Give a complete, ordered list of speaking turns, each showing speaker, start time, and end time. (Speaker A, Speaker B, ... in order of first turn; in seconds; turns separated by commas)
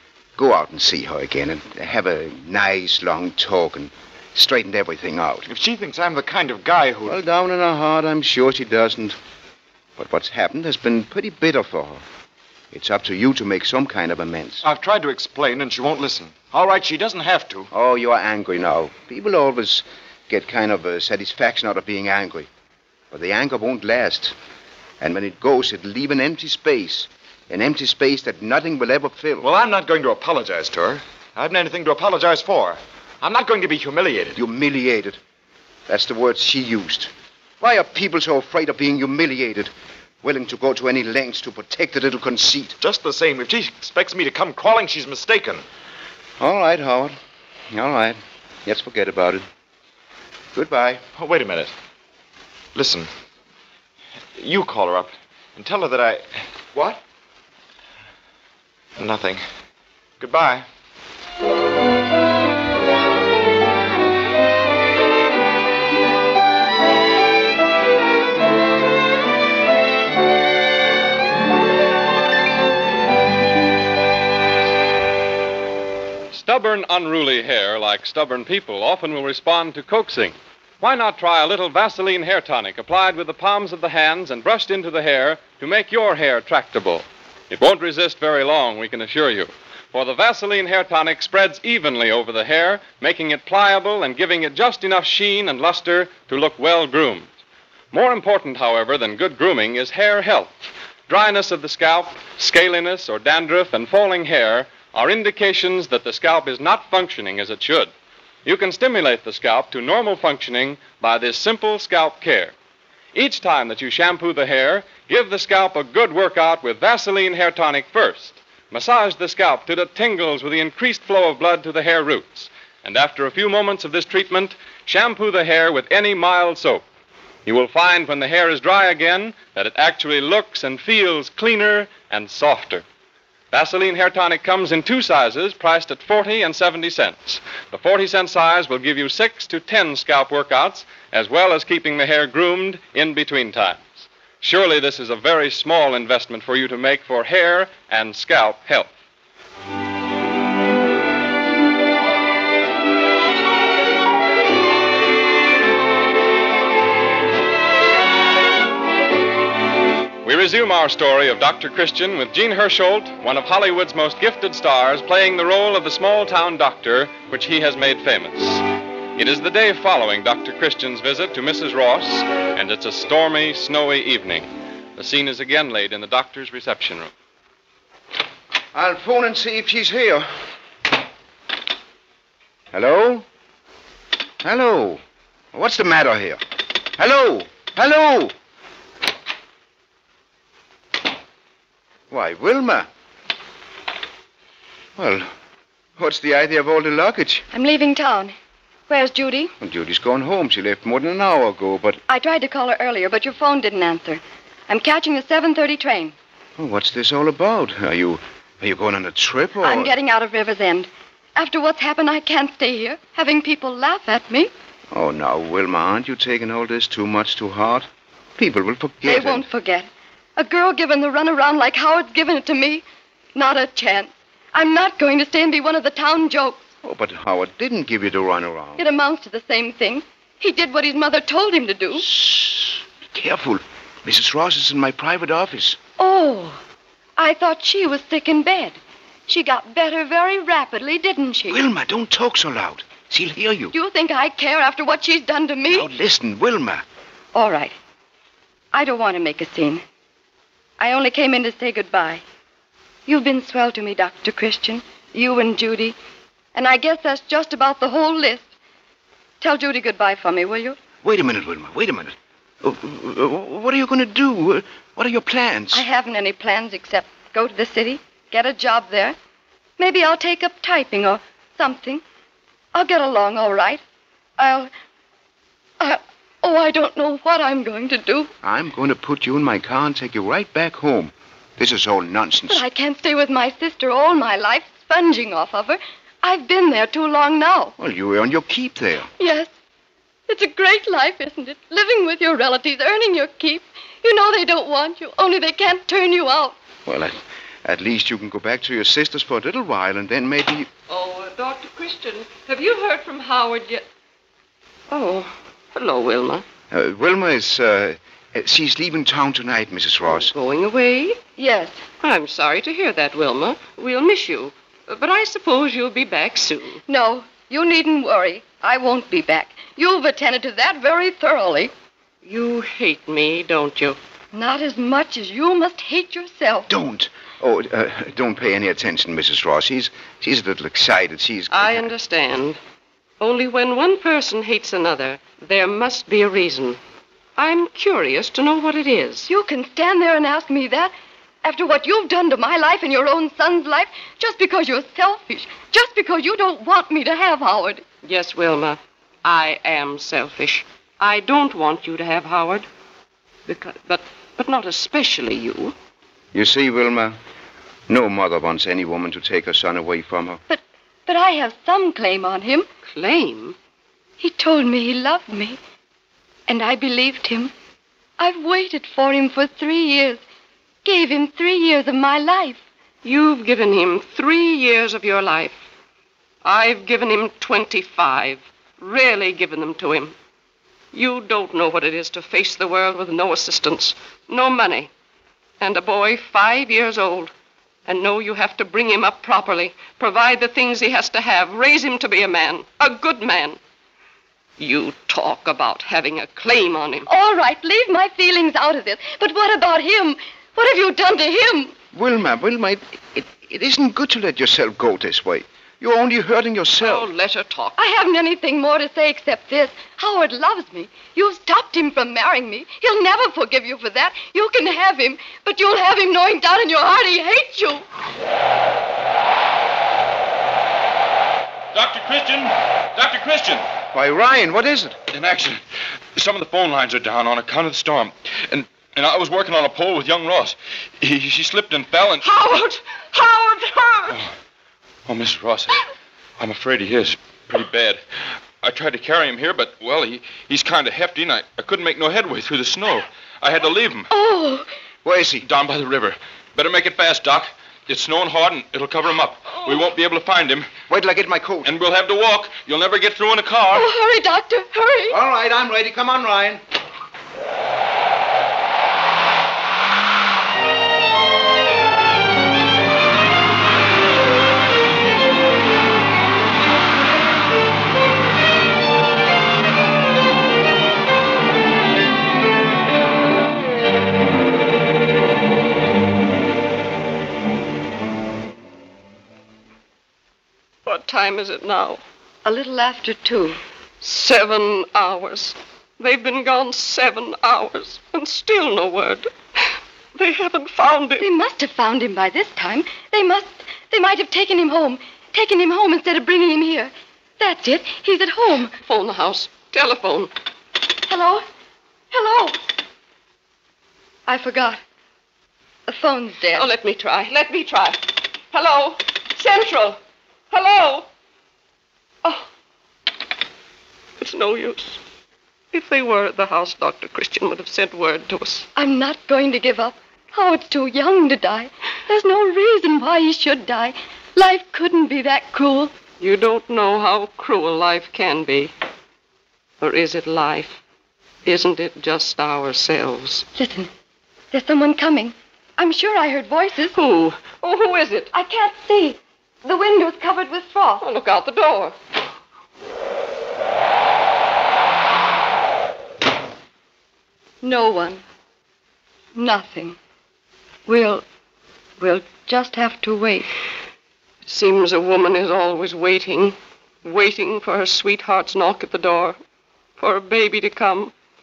Speaker A: 0.4-5.5, Speaker B: 5.5-7.2, Speaker A: 7.1-9.2, Speaker A: 10.0-12.0, Speaker A: 12.7-14.7, Speaker B: 14.6-17.7, Speaker A: 17.7-22.5, Speaker A: 23.1-24.4, Speaker A: 25.0-29.5, Speaker B: 29.4-34.4, Speaker A: 34.4-35.2, Speaker A: 35.9-39.7, Speaker A: 40.2-42.8, Speaker B: 42.8-45.6, Speaker A: 46.4-47.2, Speaker A: 47.7-49.5, Speaker A: 50.5-51.0, Speaker B: 51.0-51.7, Speaker B: 52.8-53.1, Speaker B: 54.4-57.0, Speaker B: 59.0-59.4, Speaker B: 60.2-60.6, Speaker C: 76.3-97.3, Speaker C: 97.9-100.5, Speaker C: 101.1-107.9, Speaker C: 108.5-112.5, Speaker C: 113.2-126.8, Speaker C: 127.5-132.8, Speaker C: 133.5-148.9, Speaker C: 160.2-168.6, Speaker C: 169.2-177.1, Speaker A: 178.7-180.3, Speaker A: 182.7-183.2, Speaker A: 184.4-185.0, Speaker A: 185.5-188.3, Speaker A: 192.1-192.9, Speaker A: 195.0-195.3, Speaker A: 196.0-197.5, Speaker D: 197.5-198.3, Speaker D: 198.9-199.5, Speaker A: 199.6-202.0, Speaker D: 202.1-206.2, Speaker A: 206.6-209.9, Speaker D: 209.6-214.5, Speaker A: 214.9-219.4, Speaker D: 219.0-226.7, Speaker A: 226.8-228.8, Speaker D: 228.8-232.1, Speaker A: 232.0-235.8, Speaker D: 236.0-236.6, Speaker D: 237.2-241.6, Speaker A: 241.5-243.7, Speaker D: 243.7-245.9, Speaker A: 245.7-246.8, Speaker D: 247.3-247.8, Speaker D: 248.7-249.8, Speaker D: 250.8-252.2, Speaker D: 253.1-256.0, Speaker D: 256.5-258.5, Speaker D: 259.4-260.8, Speaker A: 261.0-265.9, Speaker D: 265.7-269.2, Speaker D: 269.8-272.0, Speaker D: 272.7-273.8, Speaker D: 274.4-274.7, Speaker D: 275.8-278.3, Speaker A: 278.4-282.6, Speaker D: 282.5-287.7, Speaker A: 287.8-289.1, Speaker D: 289.2-289.5, Speaker D: 290.3-296.6, Speaker A: 296.9-300.7, Speaker E: 300.9-303.9, Speaker E: 304.9-306.4, Speaker A: 306.7-310.3, Speaker E: 310.2-311.2, Speaker D: 311.3-311.8, Speaker E: 312.0-316.8, Speaker D: 316.9-321.7, Speaker E: 322.2-324.0, Speaker D: 324.3-326.7, Speaker A: 326.7-331.9, Speaker E: 331.5-332.6, Speaker E: 333.2-336.8, Speaker E: 337.4-339.3, Speaker D: 339.3-347.9, Speaker E: 348.0-352.7, Speaker E: 353.5-355.8, Speaker A: 356.3-357.2, Speaker A: 357.9-360.4, Speaker D: 360.5-362.7, Speaker E: 362.9-363.6, Speaker D: 364.2-365.6, Speaker D: 366.5-367.5, Speaker D: 368.2-370.2, Speaker D: 370.9-372.6, Speaker E: 373.0-375.6, Speaker E: 376.4-380.1, Speaker E: 380.9-384.9, Speaker E: 385.6-387.3, Speaker E: 387.9-393.6, Speaker E: 394.6-397.1, Speaker D: 397.1-401.7, Speaker A: 401.9-407.1, Speaker E: 406.8-407.7, Speaker D: 407.7-417.9, Speaker F: 421.7-423.7, Speaker A: 423.9-425.0, Speaker F: 425.1-425.6, Speaker F: 426.1-432.5, Speaker D: 432.4-433.9, Speaker F: 435.1-435.8, Speaker F: 436.4-438.0, Speaker F: 438.6-444.1, Speaker D: 444.1-444.7, Speaker A: 445.0-445.4, Speaker F: 445.4-450.7, Speaker A: 450.9-451.6, Speaker F: 451.6-453.9, Speaker D: 453.7-455.2, Speaker E: 480.9-482.0, Speaker D: 482.4-483.6, Speaker E: 484.0-489.3, Speaker E: 490.1-491.3, Speaker D: 491.2-498.7, Speaker E: 498.8-500.3, Speaker D: 501.0-501.4, Speaker D: 502.1-502.6, Speaker D: 504.3-504.8, Speaker D: 505.9-506.8, Speaker E: 506.5-510.0, Speaker E: 510.5-511.1, Speaker E: 514.2-515.0, Speaker E: 515.7-518.7, Speaker D: 518.7-525.9, Speaker E: 526.2-528.7, Speaker E: 529.8-530.8, Speaker E: 531.5-533.5, Speaker D: 533.5-533.9, Speaker D: 534.5-537.0, Speaker E: 536.9-538.3, Speaker D: 538.3-541.1, Speaker E: 541.0-541.9, Speaker D: 547.6-548.2, Speaker D: 549.4-550.0, Speaker D: 550.9-551.2, Speaker D: 552.0-553.5, Speaker E: 554.5-559.4, Speaker E: 560.0-561.1